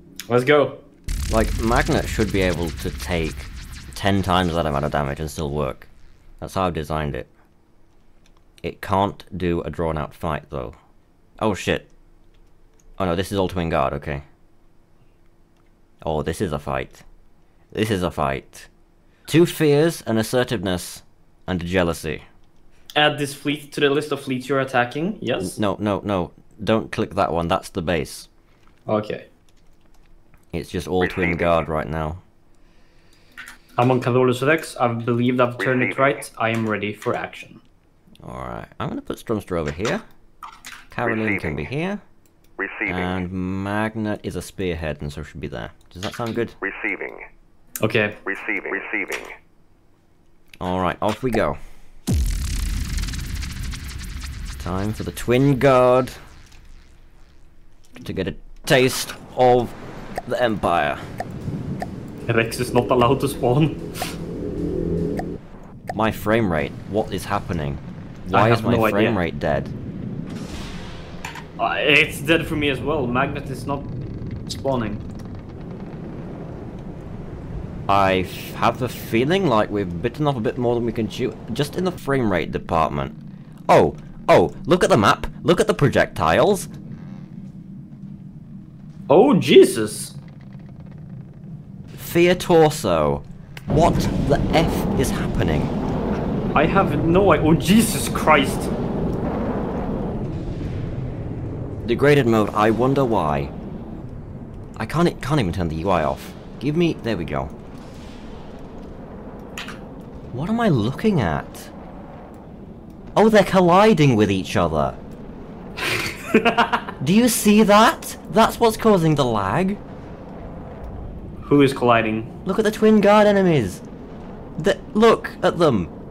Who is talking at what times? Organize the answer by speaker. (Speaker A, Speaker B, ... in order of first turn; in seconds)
Speaker A: 0.3-0.8, 22.9-25.6, 28.9-29.3, 33.8-37.6, 47.8-48.2, 62.3-63.8, 68.3-69.2, 71.6-73.9, 74.5-75.0, 89.1-90.2, 96.5-98.7, 115.8-116.9, 121.4-122.3
Speaker B: 1.3-5.9, 6.4-7.3, 8.6-10.7, 11.4-11.9, 13.0-14.2, 16.0-17.0, 17.7-18.7, 19.3-22.2, 25.4-28.3, 30.5-32.2, 38.2-40.0, 40.9-42.0, 42.8-46.5, 50.6-51.6, 54.6-56.1, 58.0-59.7, 60.3-61.0, 65.9-69.7, 77.9-83.2, 83.7-86.7, 92.0-95.7, 101.8-103.5, 104.8-107.5, 110.3-111.7, 113.2-115.0, 117.0-119.8, 122.4-123.8, 124.6-125.9
Speaker C: 31.0-31.6, 35.6-36.2, 41.0-41.7, 42.6-43.2, 46.6-47.2, 48.2-49.4